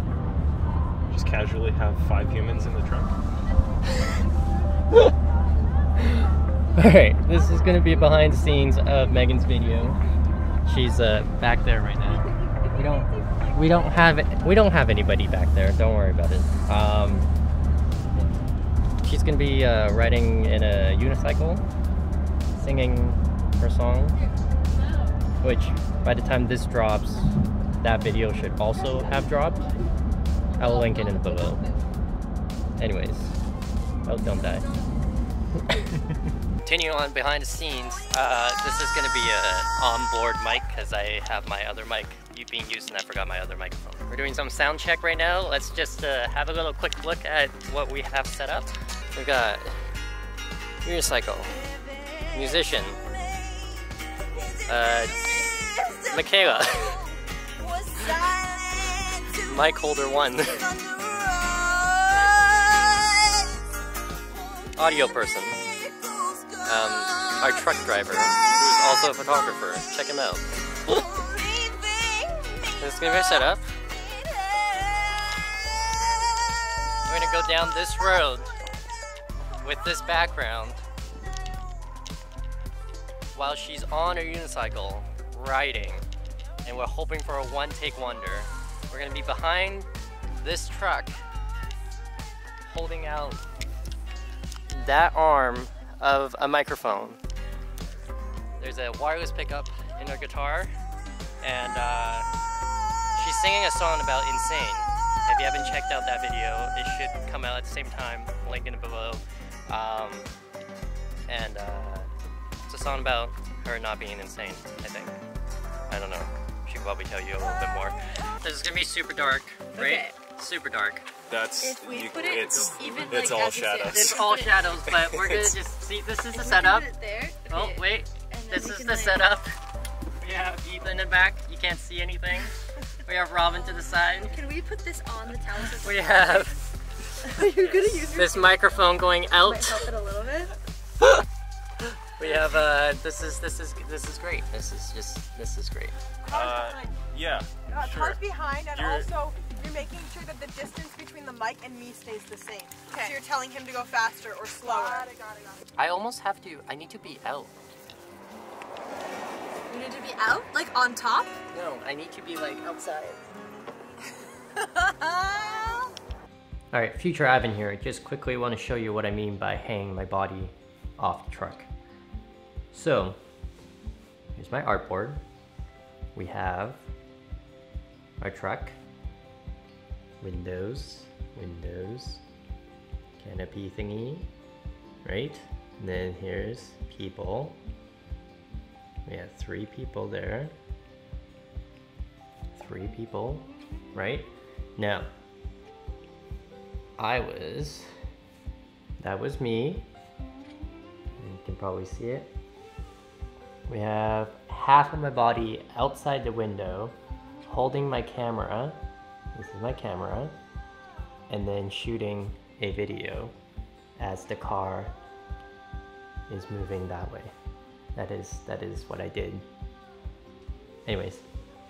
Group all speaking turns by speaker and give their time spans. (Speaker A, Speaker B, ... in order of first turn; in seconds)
Speaker A: 1.1-3.2, 121.3-125.5, 146.3-148.2, 148.7-149.1
Speaker B: 6.8-10.0, 10.7-17.3, 19.0-21.6, 22.6-24.2, 25.4-29.6, 30.6-31.6, 32.8-33.3, 34.1-34.7, 36.6-49.8, 50.8-51.6, 52.3-53.0, 54.7-55.4, 56.1-57.0, 59.4-60.7, 64.8-65.6, 66.6-71.0, 72.8-73.8, 77.1-78.5, 79.6-80.8, 83.3-86.1, 86.6-89.9, 90.4-91.2, 92.7-93.4, 94.7-97.2, 98.6-100.7, 101.4-102.3, 103.2-110.3, 111.3-112.1, 112.7-115.2, 115.9-121.1, 123.8-126.9, 127.5-129.6, 130.2-132.5, 133.1-134.4, 135.8-136.6, 137.6-139.9, 142.2-146.0, 155.8-157.5, 161.5-162.8, 166.7-171.7, 172.7-173.2, 174.4-175.2, 176.2-176.8, 178.2-178.8, 180.2-182.2, 183.2-184.3, 185.0-187.6, 189.1-190.5, 192.5-195.1, 197.0-197.9, 199.0-199.9, 201.2-202.3, 203.7-208.8, 209.3-210.3, 211.3-213.3, 214.0-214.9, 216.3-217.3, 217.9-219.5, 220.9-221.2
Speaker C: 12.3-13.8, 54.4-59.9, 60.4-63.5, 64.6-67.7, 70.9-75.4, 119.7-120.2, 121.6-124.7, 126.3-129.3, 134.2-136.4, 137.2-138.7, 139.4-140.6, 154.6-155.1, 159.7-161.3, 162.8-163.2, 164.7-165.9
Speaker D: 146.2-147.0, 147.7-155.6, 165.3-165.6